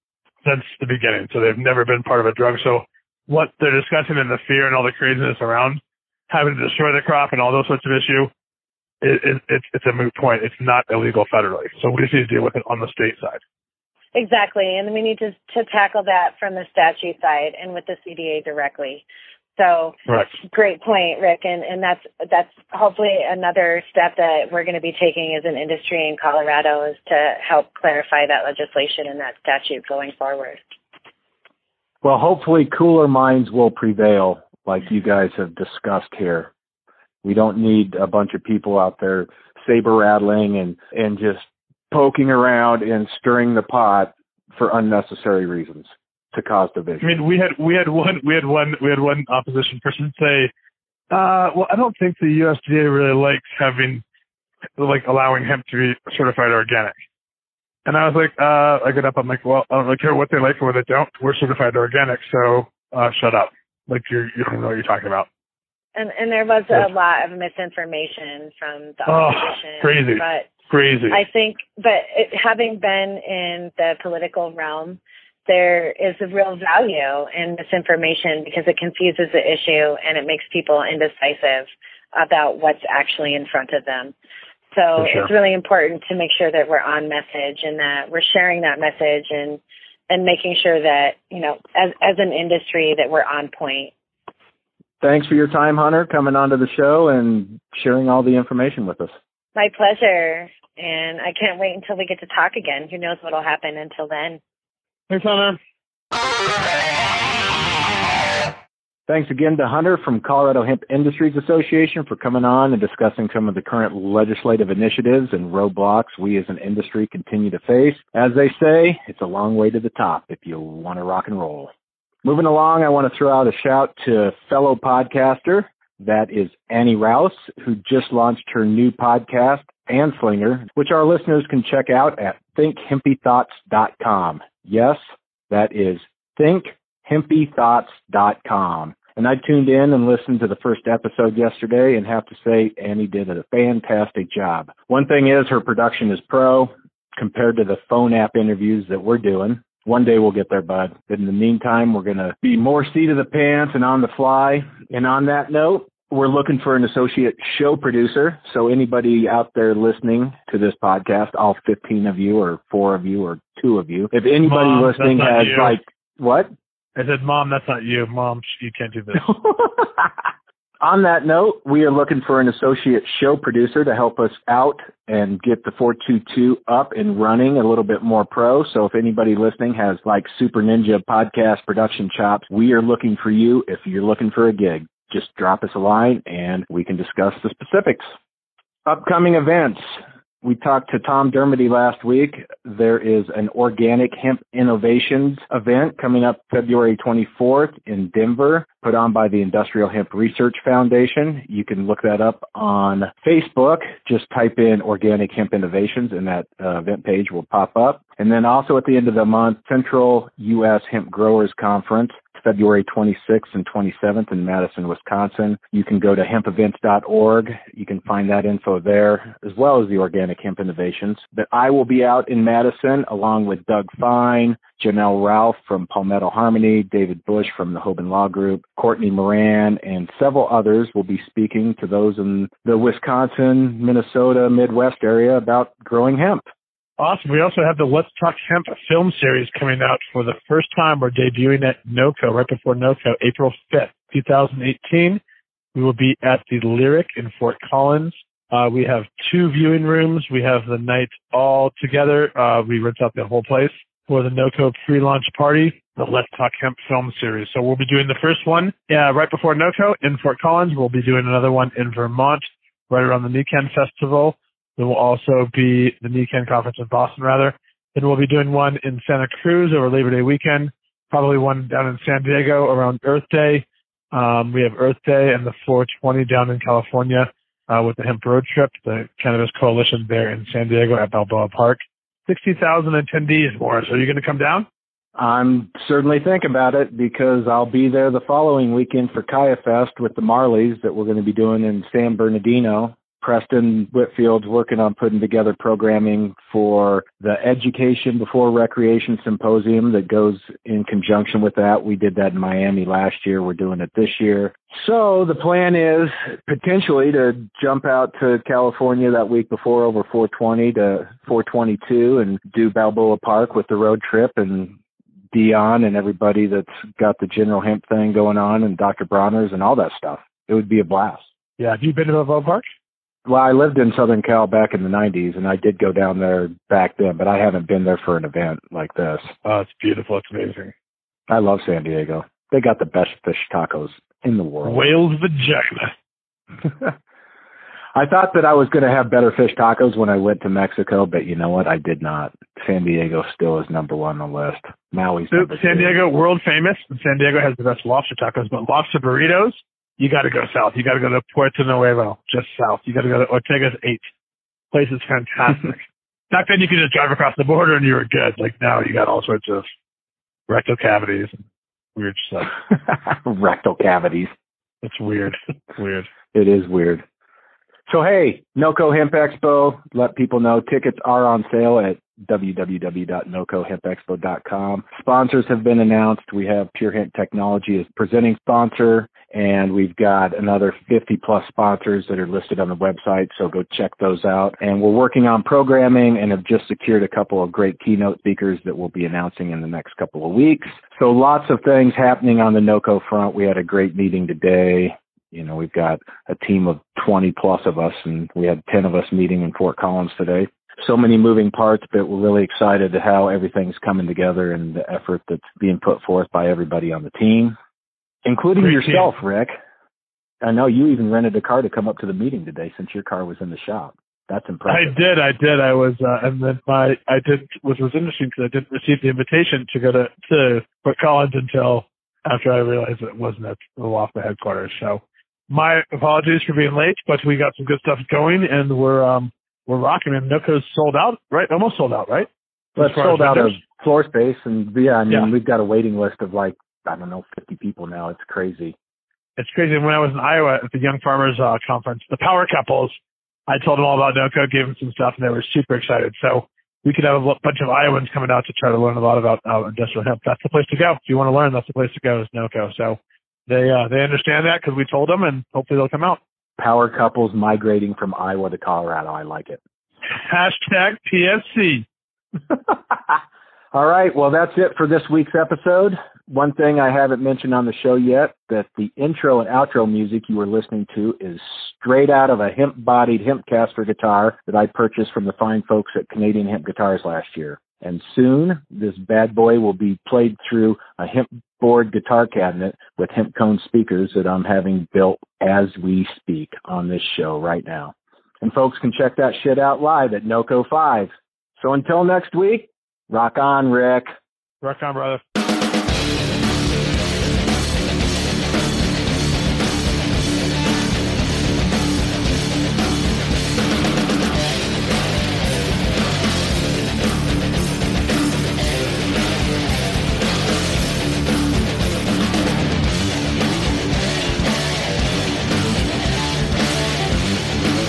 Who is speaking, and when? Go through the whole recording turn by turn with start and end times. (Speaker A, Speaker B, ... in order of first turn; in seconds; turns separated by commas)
Speaker A: 0.4-8.3, Speaker A: 9.0-13.4, Speaker B: 14.1-19.0, Speaker B: 19.6-30.6, Speaker A: 20.1-20.4, Speaker C: 32.0-36.5, Speaker C: 37.2-47.1, Speaker A: 47.0-50.5, Speaker A: 51.1-54.0, Speaker A: 54.8-57.0, Speaker A: 57.9-65.3, Speaker B: 66.0-70.5, Speaker A: 69.1-71.2, Speaker B: 71.1-84.1, Speaker B: 84.7-93.9, Speaker A: 85.0-85.3, Speaker C: 95.0-99.1, Speaker B: 99.6-104.4, Speaker A: 105.1-105.6, Speaker C: 109.1-121.7, Speaker C: 122.2-166.5, Speaker A: 164.4-165.8, Speaker A: 167.0-169.3, Speaker C: 169.2-170.1, Speaker C: 170.8-188.1, Speaker C: 188.8-236.5, Speaker A: 237.0-245.2, Speaker A: 245.7-284.7, Speaker C: 285.2-314.8, Speaker C: 315.3-321.3, Speaker A: 321.6-322.6, Speaker C: 323.3-329.3, Speaker A: 329.4-330.7, Speaker C: 331.3-334.9, Speaker A: 334.6-335.9, Speaker C: 336.7-336.9, Speaker C: 337.9-346.0, Speaker A: 345.3-354.1, Speaker A: 354.7-359.7, Speaker A: 360.5-361.4, Speaker A: 362.0-362.6, Speaker C: 363.0-364.3, Speaker A: 364.8-366.1, Speaker C: 366.3-367.0, Speaker C: 367.9-407.6, Speaker C: 408.2-409.5, Speaker A: 408.6-409.1, Speaker C: 410.4-414.9, Speaker A: 414.7-433.6, Speaker C: 432.8-438.8, Speaker A: 439.4-442.9, Speaker A: 443.5-456.2, Speaker C: 456.6-459.6, Speaker A: 460.1-461.9, Speaker C: 462.5-463.2, Speaker C: 463.7-494.1, Speaker A: 494.6-495.2